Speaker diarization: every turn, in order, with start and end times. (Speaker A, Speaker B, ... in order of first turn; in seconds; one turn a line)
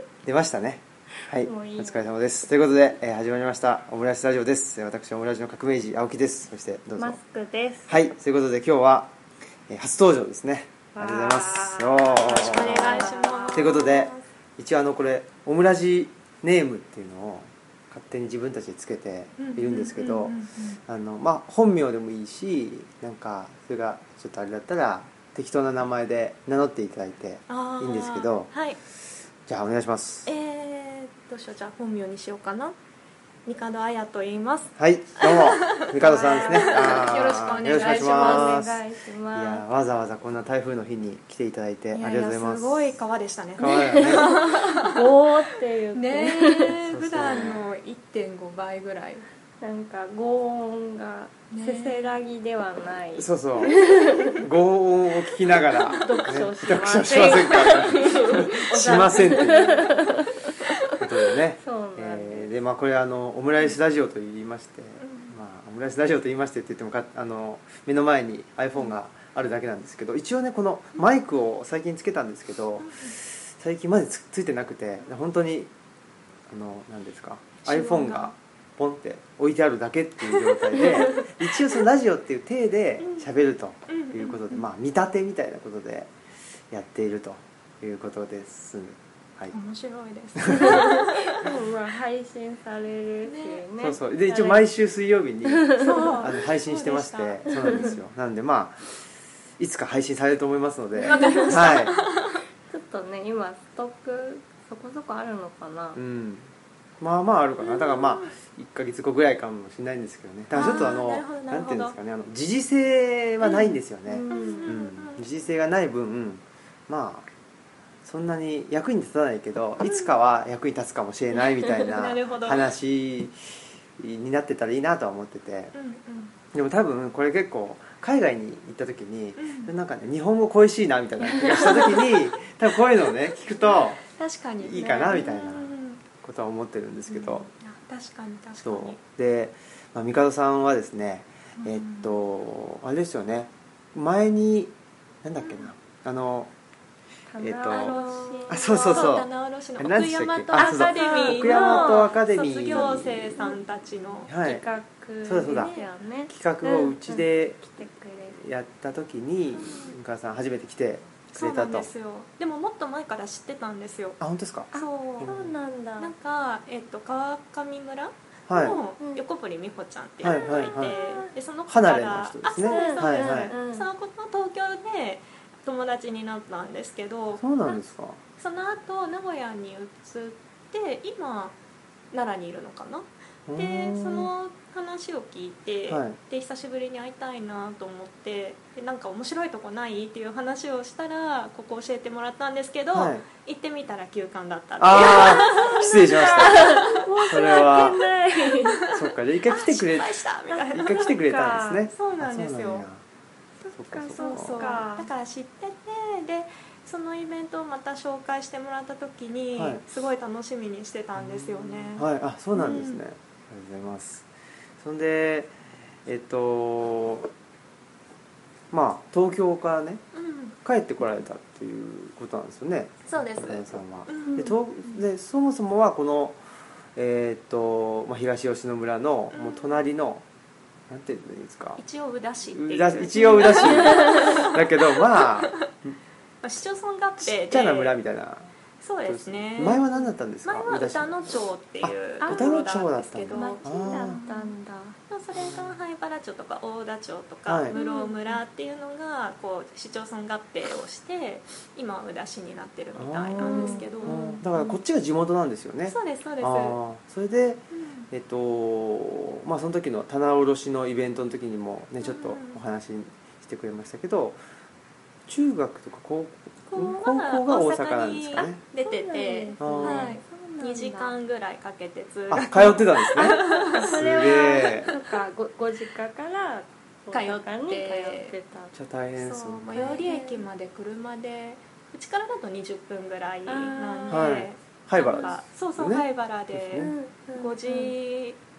Speaker A: 0.2-7.2
Speaker B: 1.4-2.1
Speaker B: 7.0-8.0
Speaker A: 7.9-9.1
Speaker A: 9.7-28.5
Speaker B: 10.9-14.2
Speaker C: 12.2-14.0
Speaker C: 19.4-20.8
Speaker C: 27.5-28.8
Speaker A: 29.5-30.3
Speaker C: 30.3-32.8
Speaker C: 33.5-38.5
Speaker A: 34.8-38.8
Speaker B: 36.1-37.1
Speaker B: 37.7-39.6
Speaker A: 39.3-43.0
Speaker C: 41.9-45.0
Speaker A: 43.6-44.3
Speaker B: 43.6-47.4
Speaker C: 45.9-49.2
Speaker A: 46.7-47.7
Speaker B: 49.6-54.4
Speaker C: 51.5-52.1
Speaker A: 53.2-53.9
Speaker A: 54.4-60.0
Speaker B: 55.9-62.5
Speaker C: 57.2-58.2
Speaker C: 58.8-59.5
Speaker A: 61.0-75.7
Speaker C: 65.0-65.3
Speaker C: 72.8-73.2
Speaker A: 76.5-86.1
Speaker C: 77.7-78.3
Speaker C: 80.4-81.3
Speaker C: 83.0-83.3
Speaker C: 83.9-84.6
Speaker A: 86.7-89.5
Speaker C: 89.5-91.4
Speaker A: 90.5-90.8
Speaker B: 90.5-94.7
Speaker C: 93.2-93.6
Speaker A: 93.8-99.0
Speaker B: 95.7-96.2
Speaker C: 95.8-98.0
Speaker A: 99.6-102.0
Speaker B: 101.0-101.6
Speaker C: 101.1-102.3
Speaker B: 102.7-106.0
Speaker A: 106.0-117.3
Speaker C: 107.6-108.3
Speaker C: 110.5-112.0
Speaker C: 113.4-115.2
Speaker B: 114.1-114.7
Speaker A: 118.0-123.4
Speaker C: 119.8-120.2
Speaker C: 121.7-122.7
Speaker A: 124.0-125.7
Speaker C: 125.7-126.3
Speaker A: 126.5-134.0
Speaker C: 129.4-129.7
Speaker C: 133.6-136.0
Speaker A: 134.6-137.5
Speaker C: 137.1-139.0
Speaker A: 138.6-146.5
Speaker C: 141.6-142.2
Speaker C: 145.4-145.7
Speaker B: 147.3-149.1
Speaker A: 147.4-148.0
Speaker C: 147.7-154.3
Speaker A: 148.5-153.4
Speaker B: 150.6-152.1
Speaker B: 152.7-153.6
Speaker A: 154.3-154.7
Speaker B: 154.3-158.4
Speaker A: 155.2-155.7
Speaker C: 155.5-155.9
Speaker A: 156.3-157.6
Speaker A: 158.3-161.9
Speaker C: 159.6-159.9
Speaker C: 161.3-164.2
Speaker A: 164.2-165.5
Speaker C: 164.7-165.3
Speaker B: 164.7-166.1
Speaker C: 166.0-177.8
Speaker A: 168.5-168.8
Speaker A: 170.2-171.0
Speaker B: 170.3-171.3
Speaker A: 171.7-173.6
Speaker B: 172.7-173.9
Speaker A: 177.4-178.2
Speaker C: 178.4-181.6
Speaker C: 182.1-197.0
Speaker A: 183.5-184.3
Speaker A: 185.9-186.2
Speaker A: 192.9-193.2
Speaker A: 194.8-196.7
Speaker B: 195.3-198.8
Speaker A: 197.3-198.0
Speaker A: 198.9-200.1
Speaker C: 198.9-201.1
Speaker B: 200.5-201.8
Speaker A: 200.7-203.0
Speaker C: 201.9-202.9
Speaker B: 203.6-205.1
Speaker A: 203.8-204.7
Speaker C: 204.2-213.0
Speaker A: 209.6-209.8
Speaker A: 211.2-214.3
Speaker A: 214.8-215.5
Speaker A: 216.1-217.3
Speaker A: 218.7-220.0
Speaker C: 220.1-220.6
Speaker A: 220.6-226.4
Speaker C: 223.1-225.0
Speaker B: 224.2-224.6
Speaker A: 226.9-230.2
Speaker C: 229.3-229.9
Speaker A: 230.9-231.8
Speaker C: 231.8-235.6
Speaker A: 232.5-236.0
Speaker B: 233.8-234.3
Speaker C: 236.4-238.0
Speaker A: 237.2-238.5
Speaker C: 238.8-239.9
Speaker A: 239.1-241.2
Speaker B: 239.6-240.0
Speaker C: 240.4-244.5
Speaker A: 241.8-244.2
Speaker B: 242.2-242.6
Speaker B: 243.3-245.0
Speaker C: 245.1-254.7
Speaker A: 247.5-247.8
Speaker B: 247.7-248.4
Speaker A: 253.0-264.4
Speaker B: 253.4-254.4
Speaker C: 255.9-256.8
Speaker C: 257.7-258.1
Speaker C: 262.0-262.6
Speaker A: 265.3-268.6
Speaker C: 266.7-274.6
Speaker B: 268.8-271.1
Speaker A: 269.6-270.2
Speaker A: 272.3-274.9
Speaker B: 273.1-278.7
Speaker C: 277.1-278.3
Speaker A: 278.8-279.7
Speaker C: 279.2-288.4
Speaker B: 279.7-280.5
Speaker B: 283.5-284.4
Speaker A: 284.1-286.9
Speaker B: 285.0-285.4
Speaker B: 286.8-287.9